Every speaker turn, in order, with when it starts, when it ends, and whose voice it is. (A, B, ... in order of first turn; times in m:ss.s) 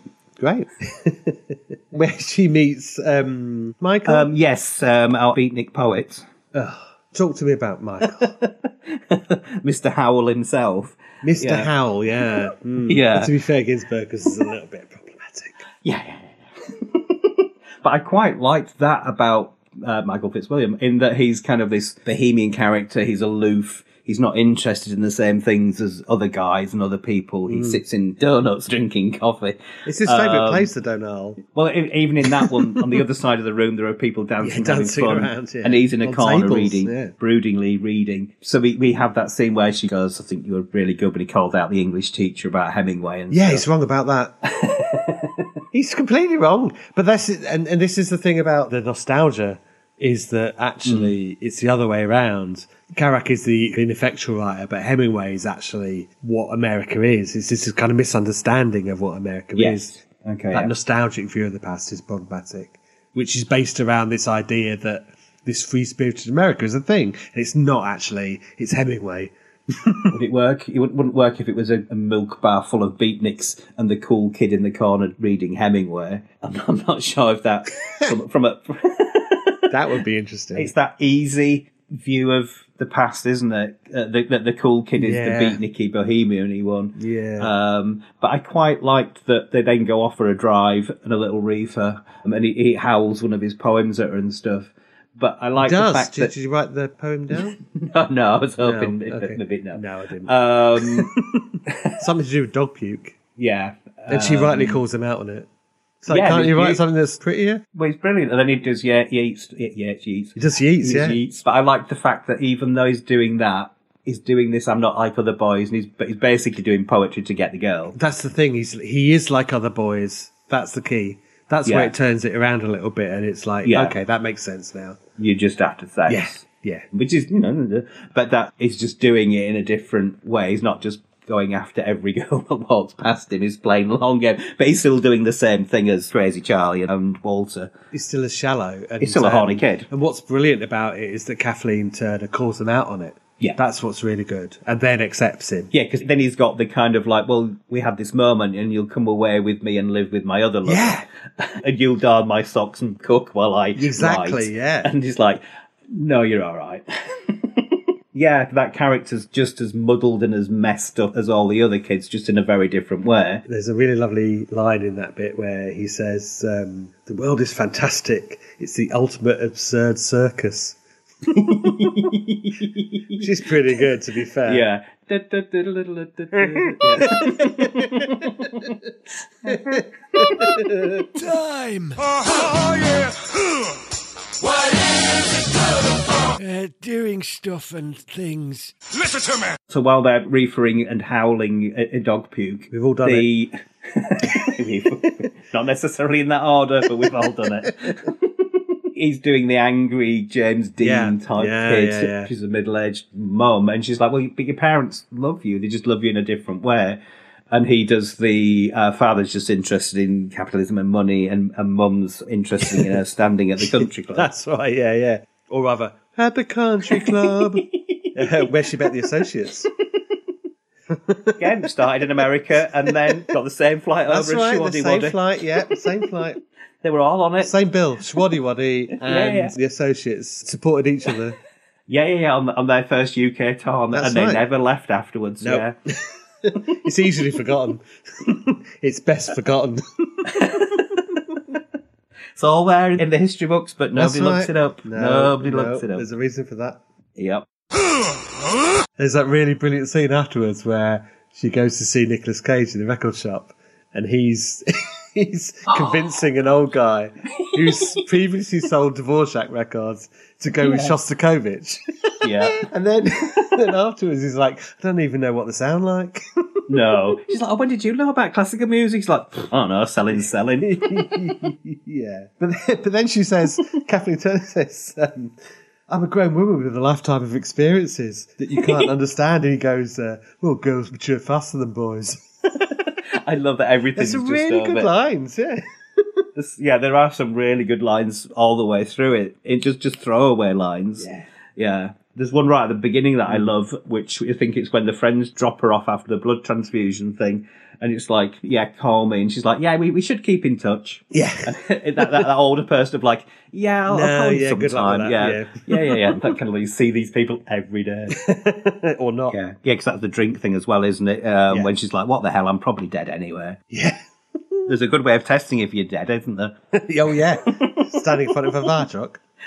0:00.4-0:04.3 A
0:04.0-0:06.3 B
0:06.5-0:08.3 A
0:08.0-0:11.7 B
0:11.2-0:15.6 A
0:12.8-0:13.3 B
0:15.8-0:30.7 B
0:27.5-0:27.8 A
0:29.9-0:31.4 A
0:31.4-0:43.7 B
0:32.4-0:32.8 A
0:34.4-0:37.1 A
0:43.3-0:44.4 A
0:44.5-0:45.5 B
0:45.7-1:00.0 A
0:50.8-0:51.2 B
0:59.6-1:00.7 B
1:00.5-1:10.1 A
1:10.1-1:19.6 B
1:19.7-1:20.7 A
1:20.6-1:36.3 B
1:25.0-1:25.6 A
1:27.0-1:27.5 A
1:35.6-1:37.6 A
1:37.3-1:41.1 B
1:38.6-1:43.2 A
1:41.7-1:42.0 B
1:43.4-1:44.8 B
1:44.1-1:45.5 A
1:46.0-1:47.6 A
1:46.1-1:46.8 B
1:47.7-1:58.0 B
1:50.4-1:51.2 A
1:57.9-2:05.0 A
2:01.6-2:01.9 B
2:03.6-2:04.0 B
2:05.2-2:17.7 B
2:06.1-2:06.9 A
2:17.9-2:25.7 A
2:19.0-2:19.9 B
2:25.7-2:43.4 B
2:30.6-2:31.1 A
2:33.8-2:34.9 A
2:43.5-2:50.8 A
2:51.3-2:53.3 B
2:53.2-2:54.7 A
2:54.4-2:58.8 B
2:56.6-2:57.9 A
2:59.4-3:00.6 B
2:59.5-3:01.1 A
3:01.2-3:03.1 C
3:06.4-3:08.8 C
3:09.7-3:34.3 B
3:12.7-3:13.3 A
3:20.8-3:22.3 A
3:32.6-3:33.0 A
3:33.6-3:39.7 A
3:36.9-3:39.1 B
3:40.9-3:42.0 A
3:41.4-3:45.9 B
3:42.9-3:43.3 A
3:44.1-3:46.4 A
3:46.8-3:47.5 B
3:47.4-3:51.4 A
3:49.0-3:49.5 B
3:51.9-3:55.7 B
3:53.9-3:54.4 A
3:55.4-4:00.3 A
4:00.3-4:01.4 B
4:02.4-4:06.1 B
4:04.0-4:06.8 A
4:07.2-4:07.5 B
4:09.0-4:26.2 A
4:17.4-4:18.0 B
4:20.6-4:21.0 B
4:22.2-4:22.6 B
4:26.7-4:31.0 B
4:30.6-4:35.4 A
4:35.9-4:42.2 A
4:38.6-4:38.9 B
4:42.6-4:44.9 B
4:44.0-4:46.2 A
4:46.4-5:08.2 B
4:51.0-4:51.3 A
5:01.1-5:02.3 A
5:03.9-5:06.2 A
5:08.1-5:09.4 A
5:09.3-5:13.6 B
5:13.7-5:14.0 A
5:14.7-5:16.6 B
5:16.7-5:19.2 A
5:17.4-5:18.7 B